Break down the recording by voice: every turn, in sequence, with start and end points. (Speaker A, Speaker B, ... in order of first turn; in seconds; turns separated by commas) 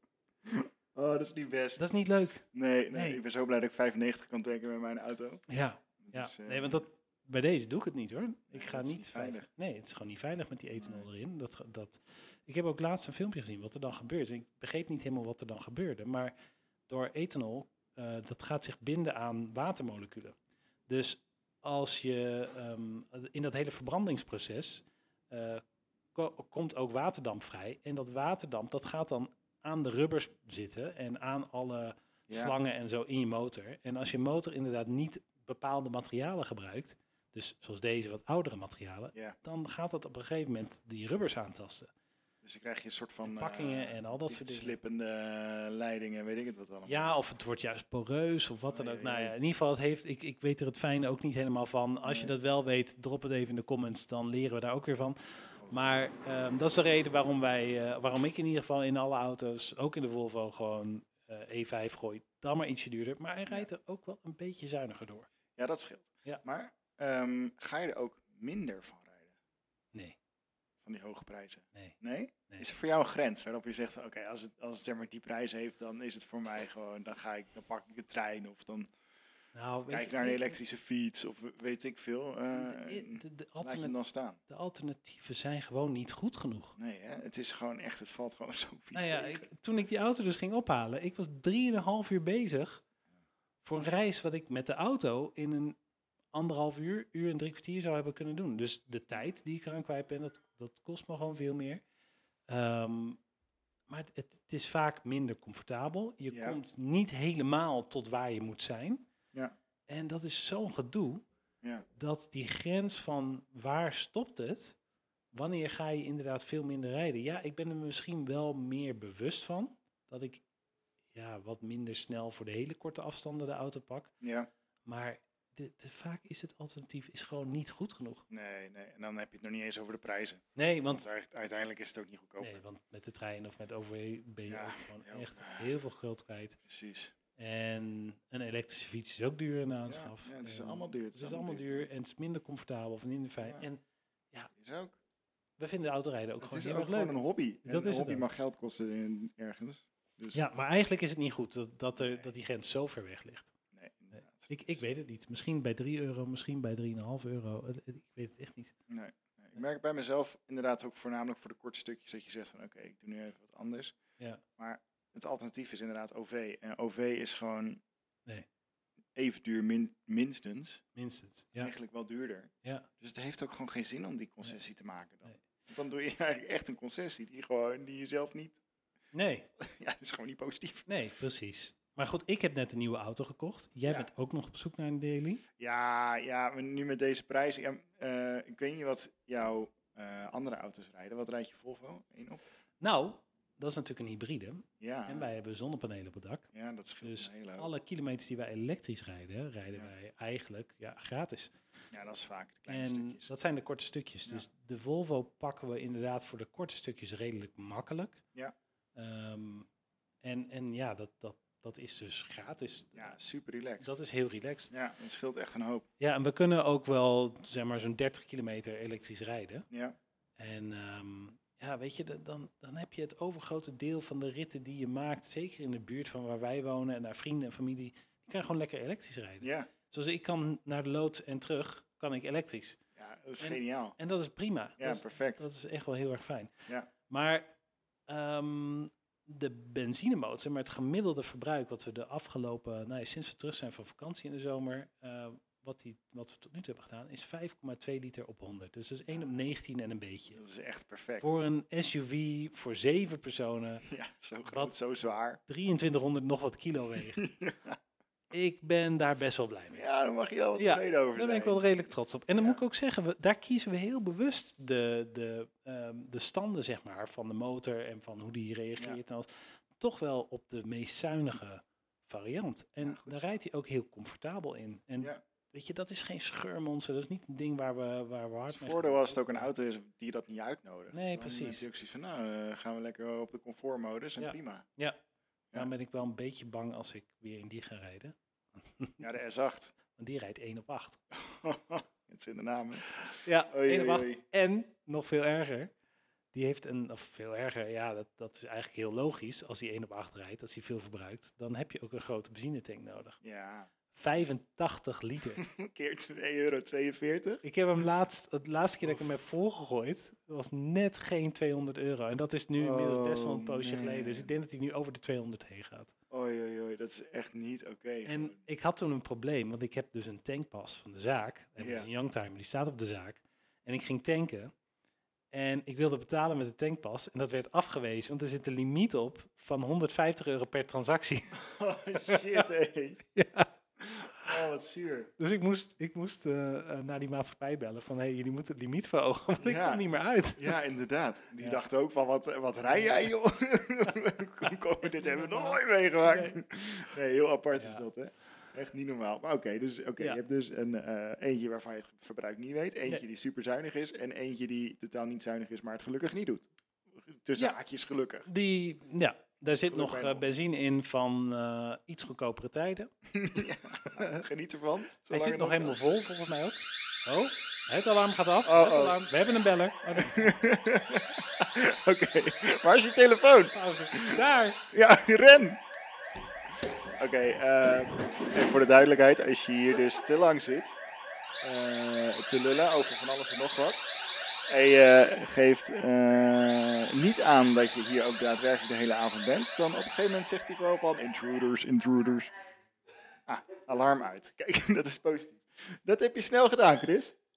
Speaker A: 0.5-1.9, Speaker B: 1.8-3.2, Speaker A: 2.5-5.4, Speaker B: 5.5-16.3, Speaker A: 6.0-6.8, Speaker A: 8.5-9.5, Speaker A: 10.8-11.1, Speaker B: 16.9-20.4, Speaker B: 20.9-25.6, Speaker B: 26.1-41.9, Speaker A: 32.3-32.5, Speaker A: 42.4-47.1, Speaker B: 43.2-44.8, Speaker B: 46.9-55.2, Speaker A: 48.7-49.3, Speaker A: 52.0-52.3, Speaker A: 55.6-56.0, Speaker B: 55.7-65.3, Speaker A: 65.6-69.3, Speaker A: 70.8-78.9, Speaker B: 79.5-80.6, Speaker A: 79.9-84.4, Speaker B: 82.5-84.0, Speaker B: 84.5-86.8, Speaker A: 86.8-89.5, Speaker B: 88.9-92.8, Speaker B: 93.6-95.8, Speaker B: 96.3-101.8, Speaker B: 102.5-103.2, Speaker B: 103.9-109.1, Speaker A: 106.3-106.6, Speaker B: 109.9-111.2, Speaker B: 112.0-114.8, Speaker B: 115.3-120.4, Speaker B: 121.1-124.1, Speaker A: 124.2-124.5, Speaker B: 124.8-128.2, Speaker A: 128.3-132.6, Speaker B: 130.6-131.1, Speaker B: 132.4-136.6, Speaker A: 134.5-135.7, Speaker A: 136.7-137.1, Speaker B: 137.4-143.8, Speaker A: 139.9-141.9, Speaker A: 144.6-145.0, Speaker B: 145.6-148.3, Speaker A: 146.4-150.4, Speaker B: 150.3-153.5, Speaker A: 152.0-152.2, Speaker A: 153.7-154.8, Speaker B: 154.5-158.8, Speaker A: 158.9-163.9, Speaker A: 164.6-167.8, Speaker A: 169.2-170.8, Speaker B: 170.9-171.7, Speaker A: 171.6-178.6, Speaker B: 179.1-179.5, Speaker A: 179.6-180.9, Speaker B: 180.9-185.4, Speaker A: 185.6-192.4, Speaker B: 192.8-196.5, Speaker A: 194.8-195.3, Speaker A: 196.5-197.7, Speaker B: 197.0-201.5, Speaker A: 201.9-203.3, Speaker B: 202.7-208.2, Speaker B: 209.0-209.7, Speaker B: 210.2-213.2, Speaker A: 213.0-214.0, Speaker B: 213.8-214.7, Speaker A: 214.7-215.9, Speaker B: 216.0-219.7, Speaker A: 219.7-220.0, Speaker B: 220.4-232.8, Speaker A: 229.4-229.7, Speaker A: 233.0-234.0, Speaker B: 233.4-236.5, Speaker A: 234.8-235.4, Speaker B: 237.1-237.5, Speaker B: 238.1-250.4, Speaker A: 250.4-251.3, Speaker B: 251.2-253.9, Speaker A: 253.9-255.4, Speaker B: 254.5-254.8, Speaker B: 255.5-257.2, Speaker A: 257.1-257.8, Speaker B: 258.3-259.9, Speaker A: 259.7-261.7, Speaker B: 260.6-269.3, Speaker B: 269.8-279.5, Speaker A: 272.8-273.4, Speaker A: 278.5-284.7, Speaker B: 280.9-281.6, Speaker B: 284.2-285.0, Speaker B: 285.5-288.1, Speaker B: 288.8-289.1, Speaker A: 289.0-289.7, Speaker B: 289.9-291.0, Speaker A: 291.1-292.9, Speaker B: 292.9-295.7, Speaker A: 293.5-294.2, Speaker B: 296.3-303.2, Speaker A: 303.2-303.7, Speaker B: 303.9-305.4, Speaker A: 305.4-307.4, Speaker B: 307.4-315.9, Speaker A: 312.6-314.3, Speaker A: 316.1-318.4, Speaker B: 318.1-324.5, Speaker A: 321.6-321.9, Speaker B: 325.3-331.5, Speaker A: 331.4-333.1, Speaker B: 332.0-332.4, Speaker B: 333.1-333.5, Speaker A: 333.8-335.1, Speaker B: 335.2-340.6, Speaker A: 339.4-339.8, Speaker A: 340.4-358.3, Speaker B: 344.8-346.4, Speaker B: 347.5-347.9, Speaker B: 358.3-362.9, Speaker A: 359.7-360.2, Speaker A: 363.1-365.8, Speaker B: 365.1-370.4, Speaker A: 368.4-369.1, Speaker A: 370.0-374.2, Speaker B: 373.5-374.7, Speaker A: 374.7-375.6, Speaker A: 377.0-380.8, Speaker A: 381.4-392.3, Speaker A: 393.3-397.1